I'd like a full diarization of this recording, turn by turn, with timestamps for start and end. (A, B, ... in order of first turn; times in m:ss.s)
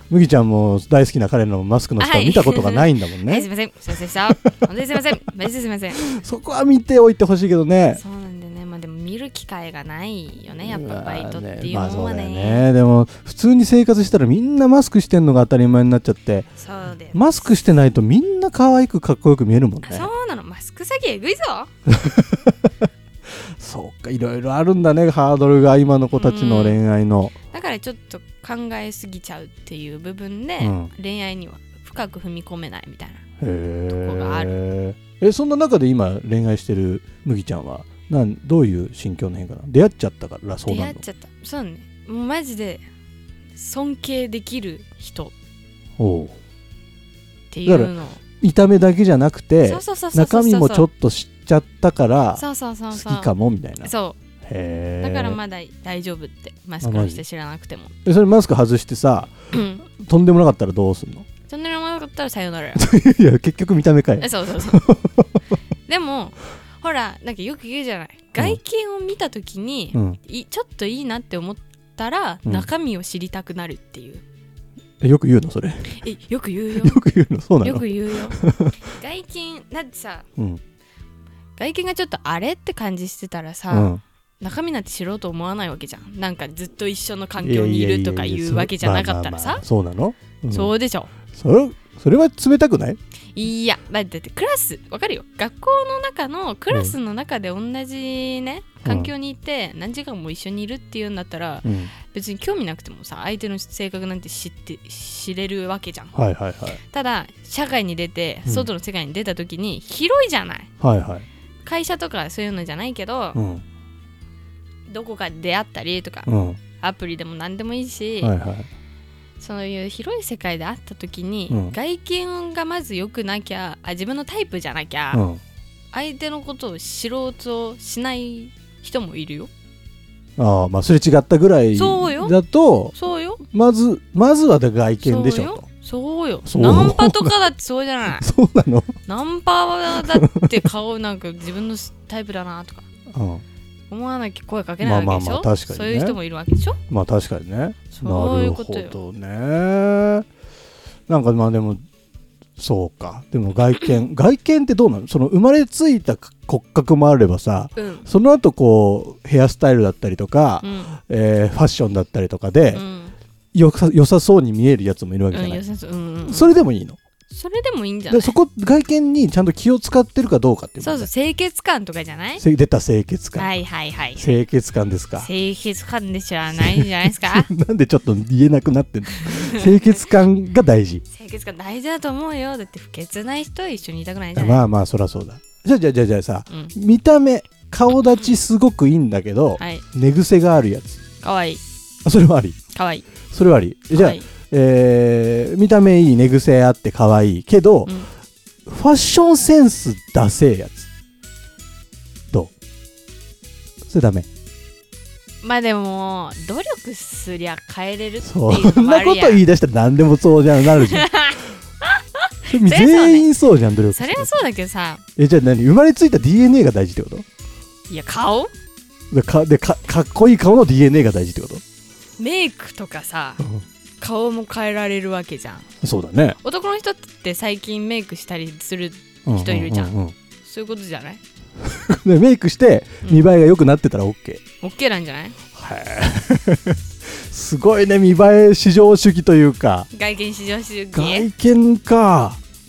0:00.1-0:03.5 A
0:02.0-0:06.0 B
0:06.0-0:08.0 A
0:07.9-0:12.7 B
0:10.6-0:16.5 A
0:16.6-0:17.4 B
0:17.1-0:20.1 A
0:19.8-0:21.7 B
0:21.9-0:22.5 A
0:23.6-0:27.4 A
0:26.1-0:26.8 B
0:27.5-0:33.2 B
0:30.6-0:30.9 A
0:33.4-0:41.0 A
0:33.9-0:34.5 B
0:40.6-0:42.8 B
0:43.5-0:45.3 B
0:46.0-0:46.3 A
0:47.5-0:48.2 B
0:47.6-0:53.9 A
0:49.6-0:50.9 B
0:52.4-0:53.3 B
0:53.8-0:54.2 B
0:54.4-0:55.4 A
0:55.0-0:57.9 B
0:56.8-0:57.2 A
0:58.0-1:01.2 A
0:59.5-0:59.9 B
1:01.5-1:02.9 B
1:02.8-1:05.2 A
1:04.2-1:04.8 B
1:05.9-1:14.2 B
1:15.0-1:16.0 A
1:16.0-1:17.0 B
1:16.8-1:18.8 A
1:17.6-1:20.2 B
1:21.6-1:29.6 B
1:23.7-1:24.0 A
1:27.4-1:30.7 A
1:30.5-1:31.1 B
1:31.3-1:33.0 A
1:33.3-1:46.2 B
1:36.7-1:37.0 A
1:38.8-1:39.1 A
1:41.6-1:41.9 A
1:46.1-1:46.8 A
1:46.9-1:50.7 B
1:50.8-1:51.2 A
1:51.6-1:53.4 B
1:53.3-1:53.6 A
1:54.9-1:58.3 B
1:56.3-1:56.6 A
1:58.2-1:58.7 A
1:59.4-2:05.2 B
2:01.5-2:01.8 A
2:05.1-2:05.4 A
2:05.9-2:09.5 B
2:10.4-2:12.9 A
2:11.7-2:12.4 B
2:12.9-2:13.4 B
2:13.5-2:15.6 A
2:15.0-2:18.3 B
2:16.4-2:17.4 A
2:18.2-2:19.0 A
2:19.1-2:22.8 B
2:20.0-2:20.6 A
2:23.1-2:23.4 A
2:23.9-2:26.8 B
2:24.8-2:26.2 A
2:26.9-2:30.2 A
2:27.9-2:29.0 B
2:31.1-2:31.8 A
2:32.6-2:42.8 A
2:37.8-2:38.1 B
2:40.6-2:40.9 B
2:42.7-2:43.1 B
2:43.5-2:45.6 A
2:45.3-2:46.6 B
2:46.2-2:47.0 A
2:47.3-2:48.4 B
2:48.1-2:51.1 A
2:50.8-2:52.4 B
2:52.4-2:53.5 A
2:53.3-2:54.4 B
2:54.2-2:55.3 A
2:55.2-2:57.5 B
2:56.6-3:01.0 A
2:59.1-2:59.9 B
3:01.1-3:04.6 B
3:04.4-3:11.0 A
3:09.6-3:09.8 B
3:11.2-3:11.6 B
3:12.0-3:12.6 A
3:12.7-3:13.0 B
3:13.3-3:18.0 A
3:13.9-3:14.3 B
3:18.7-3:20.9 A
3:23.9-3:24.3 A
3:25.4-3:29.4 B
3:28.2-3:31.1 A
3:30.6-3:33.3 B
3:32.5-3:34.3 A
3:33.9-3:35.0 B
3:35.2-3:37.2 A
3:37.9-3:38.5 B
3:39.1-3:41.6 A
3:42.2-3:43.4 B
3:44.0-3:45.7 B
3:45.8-3:46.4 A
3:46.4-3:51.2 B
3:49.2-3:50.1 A
3:51.6-3:54.4 A
3:53.0-3:53.3 B
3:54.6-3:55.4 B
3:55.5-3:59.9 A
3:59.9-4:01.3 B
4:00.9-4:02.4 A